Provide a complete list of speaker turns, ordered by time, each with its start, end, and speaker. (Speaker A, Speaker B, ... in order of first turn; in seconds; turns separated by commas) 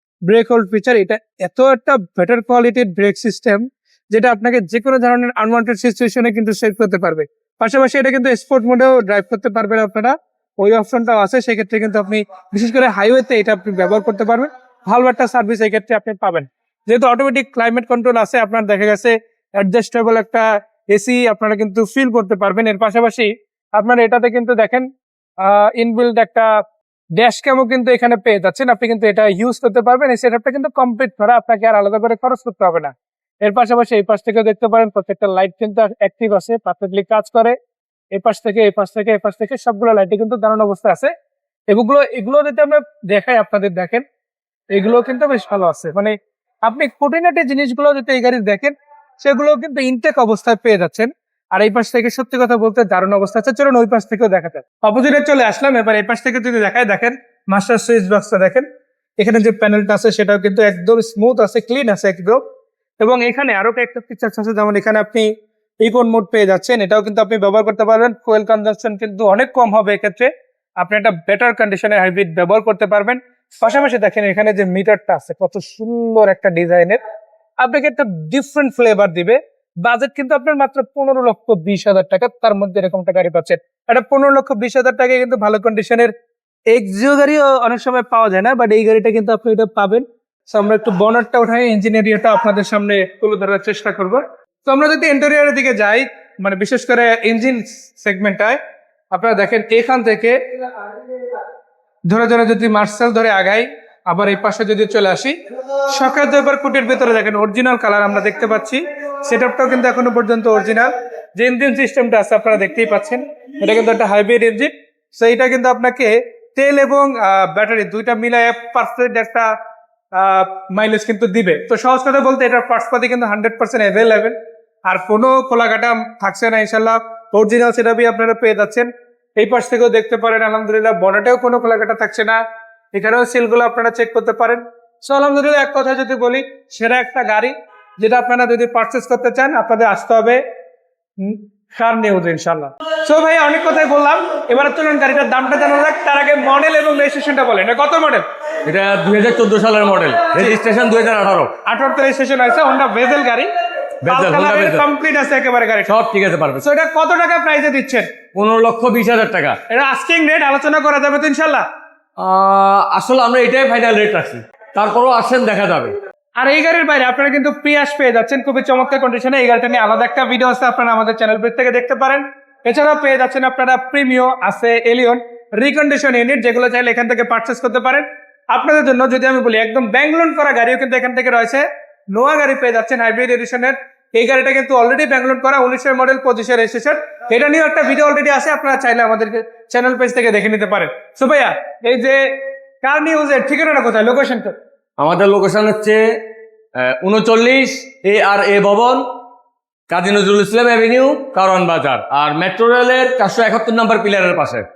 Speaker A: 0.3-24.9, Speaker A: 25.4-26.6, Speaker A: 27.2-37.5, Speaker A: 38.1-41.1, Speaker A: 41.7-44.0, Speaker A: 44.7-58.6, Speaker A: 59.2-62.4, Speaker A: 63.0-65.3, Speaker A: 65.8-77.0, Speaker A: 77.6-86.1, Speaker A: 86.7-98.6, Speaker A: 99.1-100.4, Speaker A: 102.1-119.5, Speaker A: 120.1-132.4, Speaker A: 132.9-140.4, Speaker A: 141.2-148.2, Speaker B: 148.6-151.5, Speaker A: 151.6-153.5, Speaker B: 154.0-154.8, Speaker A: 154.1-155.9, Speaker B: 155.9-156.6, Speaker A: 156.6-158.1, Speaker B: 158.3-159.6, Speaker A: 159.7-161.7, Speaker B: 162.2-165.9, Speaker A: 166.4-194.5, Speaker B: 195.0-196.0, Speaker B: 196.7-199.0, Speaker B: 199.9-204.7